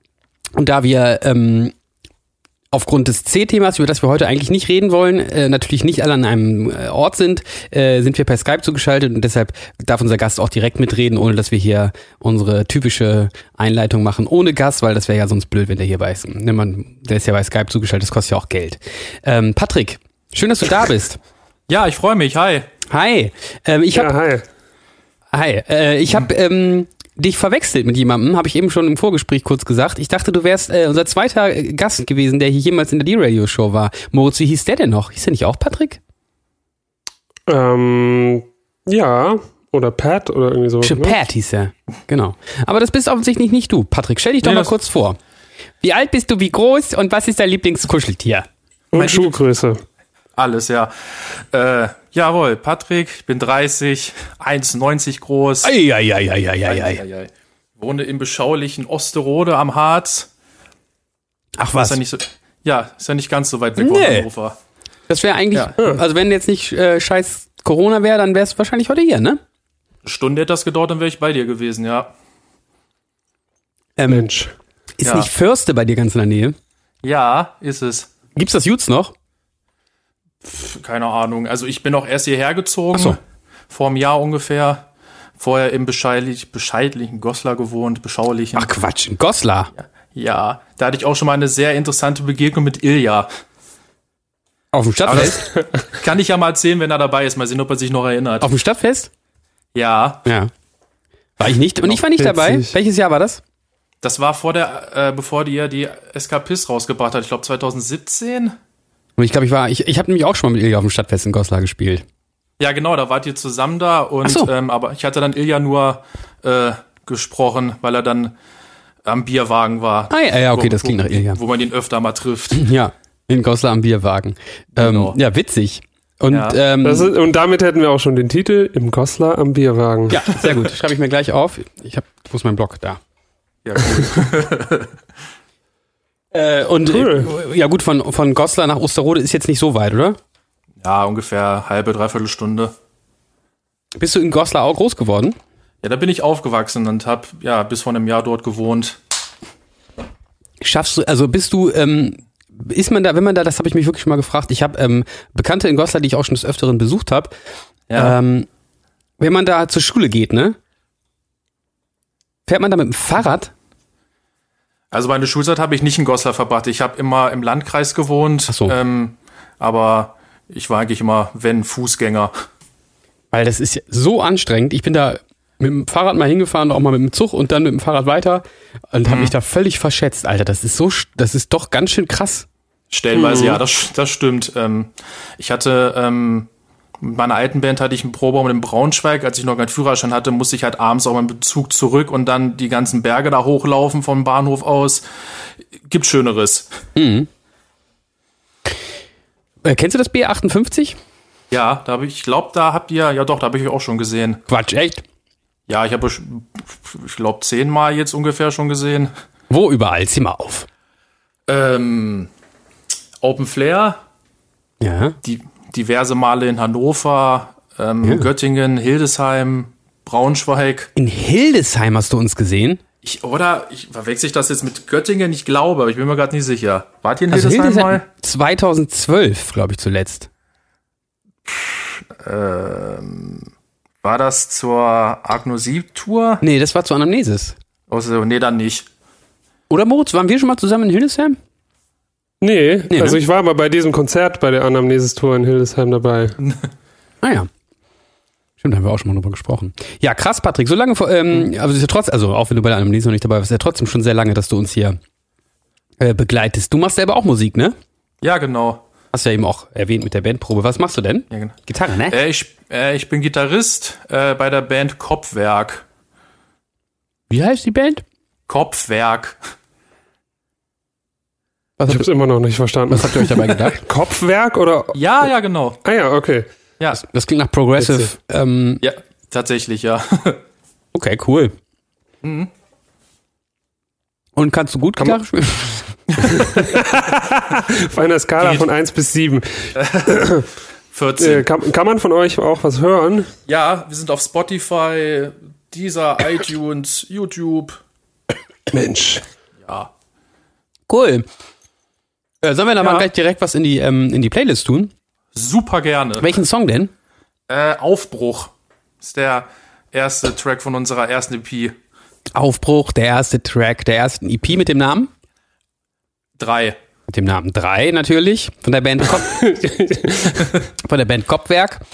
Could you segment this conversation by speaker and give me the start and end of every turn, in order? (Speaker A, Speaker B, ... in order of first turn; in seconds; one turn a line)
Speaker A: 0.6-1.7
Speaker A: 2.7-21.2
Speaker B: 21.7-22.7
Speaker A: 22.9-24.1
Speaker C: 23.9-24.4
Speaker A: 25.3-36.0
Speaker C: 37.5-41.1
Speaker A: 40.8-45.2
Speaker B: 44.4-44.7
Speaker A: 45.8-48.5
Speaker C: 48.9-49.8
Speaker B: 48.9-49.4
Speaker B: 50.4-50.9
Speaker B: 51.5-55.7
Speaker A: 55.6-57.0
Speaker B: 56.7-60.3
Speaker A: 61.6-62.0
Speaker B: 61.7-64.6
Speaker A: 63.8-64.3
Speaker A: 65.1-69.4
Speaker B: 70.0-72.1
Speaker A: 74.0-74.3
Speaker C: 74.1-74.5
Speaker A: 75.0-76.5
Speaker B: 75.0-75.3
Speaker B: 77.0-78.1
Speaker A: 78.3-79.1
Speaker B: 80.4-83.2
Speaker B: 83.7-84.8
Speaker B: 85.4-88.7
Speaker A: 88.5-89.7
Speaker B: 89.8-93.3
Speaker A: 94.7-95.4
Speaker B: 95.1-95.3
Speaker C: 95.1-95.6
Speaker B: 95.8-98.5
Speaker A: 98.4-99.1
Speaker B: 99.7-100.2
Speaker A: 100.2-100.5
Speaker A: 101.4-103.4
Speaker C: 101.8-102.7
Speaker B: 104.0-108.5
Speaker A: 109.2-112.0
Speaker B: 112.6-118.3
Speaker A: 114.2-114.5
Speaker B: 119.0-122.6
Speaker A: 120.1-121.4
Speaker A: 122.5-127.1
Speaker B: 124.8-125.2
Speaker B: 126.3-126.6
Speaker C: 126.8-130.4
Speaker A: 130.1-133.0
Speaker B: 133.6-134.9
Speaker A: 136.3-140.2
Speaker C: 136.9-137.3
Speaker B: 140.8-142.7
Speaker A: 144.0-145.3
Speaker B: 145.8-149.0
Speaker A: 150.6-157.3
Speaker B: 157.9-158.2
Speaker A: 157.9-158.5
Speaker A: 159.2-160.6
Speaker A: 162.5-163.5
Speaker B: 164.9-172.3
Speaker A: 168.5-168.8
Speaker A: 173.3-182.4
Speaker B: 179.1-179.3
Speaker B: 182.9-186.5
Speaker C: 183.1-183.6
Speaker B: 187.0-195.1
Speaker B: 195.9-196.7
Speaker A: 196.9-197.3
Speaker A: 199.6-201.0
Speaker B: 201.5-204.4
Speaker A: 204.5-205.0
Speaker B: 205.7-209.1
Speaker A: 209.5-210.7
Speaker B: 211.5-212.3
Speaker B: 213.2-214.0
Speaker A: 214.8-215.2
Speaker B: 215.2-220.9
Speaker A: 218.0-218.3
Speaker A: 220.9-222.8
Speaker B: 223.0-228.0
Speaker A: 227.3-230.3
Speaker B: 231.5-233.5
Speaker B: 234.0-236.4
Speaker A: 236.4-237.5
Speaker B: 237.9-238.9
Speaker A: 239.7-241.4
Speaker C: 242.4-246.4
Speaker A: 242.9-243.2
Speaker A: 247.2-247.5
Speaker A: 248.6-255.0
Speaker A: 256.0-257.8
Speaker B: 258.2-258.8
Speaker A: 259.1-262.2
Speaker B: 261.3-261.6
Speaker B: 262.1-265.8
Speaker A: 267.3-268.0
Speaker B: 268.5-269.4
Speaker A: 271.8-272.1
Speaker C: 271.9-275.0
Speaker A: 272.9-273.8
Speaker B: 274.9-275.8
Speaker C: 275.8-276.5
Speaker A: 276.9-278.8
Speaker C: 277.8-278.1
Speaker B: 278.8-280.4
Speaker A: 280.9-281.5
Speaker B: 282.2-282.5
Speaker A: 284.4-285.9
Speaker C: 286.2-290.4
Speaker B: 288.4-288.7
Speaker B: 289.8-290.2
Speaker B: 290.9-291.4
Speaker C: 291.2-293.3
Speaker B: 293.5-297.8
Speaker C: 298.7-299.2
Speaker B: 299.6-299.9
Speaker A: 300.9-301.2
Speaker A: 302.4-304.9
Speaker B: 302.8-303.1
Speaker B: 305.3-306.3
Speaker A: 306.2-306.9
Speaker B: 307.5-311.7
Speaker A: 312.3-315.1
Speaker B: 316.4-316.8
Speaker A: 317.1-319.4
Speaker C: 319.2-320.5
Speaker A: 320.8-321.8